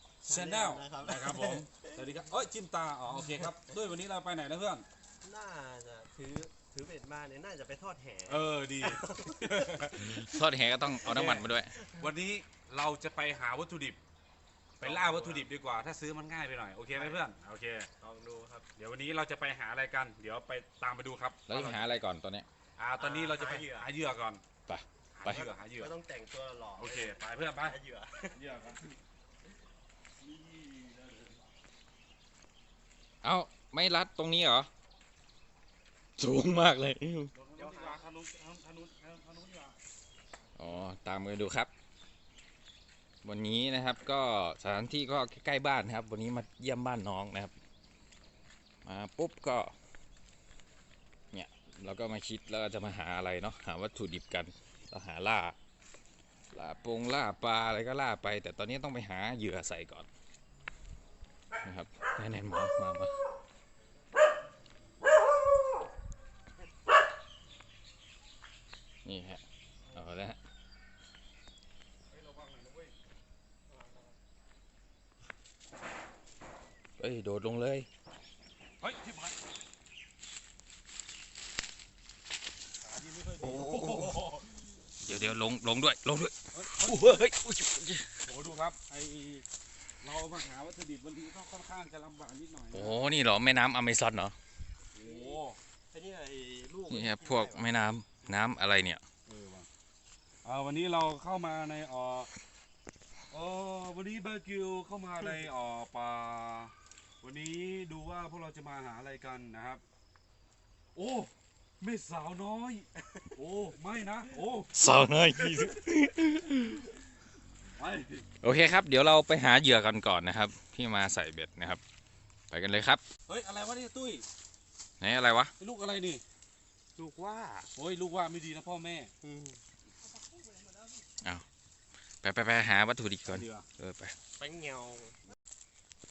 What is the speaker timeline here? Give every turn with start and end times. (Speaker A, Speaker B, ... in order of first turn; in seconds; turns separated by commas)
Speaker A: 0.2-4.8, Speaker B: 0.2-2.0, Speaker B: 5.2-10.0, Speaker A: 8.3-10.3, Speaker C: 9.9-11.8, Speaker B: 11.0-12.0, Speaker A: 11.9-14.0, Speaker A: 14.8-17.9, Speaker B: 14.8-15.5, Speaker B: 16.9-17.2, Speaker B: 18.0-18.7, Speaker A: 18.8-22.0, Speaker C: 21.5-22.5, Speaker A: 22.8-24.4, Speaker B: 23.0-23.9, Speaker C: 24.7-25.5, Speaker A: 25.2-25.9, Speaker B: 25.2-28.4, Speaker A: 26.8-27.8, Speaker A: 28.3-28.9, Speaker A: 30.2-31.4, Speaker C: 33.2-34.7, Speaker C: 36.2-37.3, Speaker A: 37.3-39.8, Speaker B: 37.6-38.0, Speaker C: 40.6-41.7, Speaker C: 43.2-47.5, Speaker C: 48.9-49.7, Speaker C: 51.3-55.6, Speaker C: 56.5-60.1, Speaker C: 61.6-63.1, Speaker C: 69.0-70.4, Speaker A: 72.1-72.9, Speaker B: 73.7-74.1, Speaker C: 77.0-77.9, Speaker A: 78.8-79.4, Speaker A: 82.8-84.5, Speaker C: 83.4-84.2, Speaker C: 85.0-88.3, Speaker A: 86.5-87.2, Speaker A: 88.3-89.5, Speaker A: 90.0-93.1, Speaker C: 92.7-94.3, Speaker A: 95.0-95.6, Speaker B: 95.0-97.7, Speaker C: 96.9-99.0, Speaker A: 99.3-99.7, Speaker A: 100.4-102.3, Speaker A: 103.3-109.8, Speaker A: 111.0-114.7, Speaker C: 114.7-116.9, Speaker A: 117.8-118.3, Speaker C: 118.4-121.8, Speaker C: 122.5-123.0, Speaker A: 123.3-124.3, Speaker C: 125.0-125.5, Speaker A: 125.6-126.2, Speaker B: 127.0-127.7, Speaker A: 127.8-129.1, Speaker B: 129.2-129.6, Speaker C: 132.2-134.2, Speaker A: 133.3-133.7, Speaker B: 134.4-135.2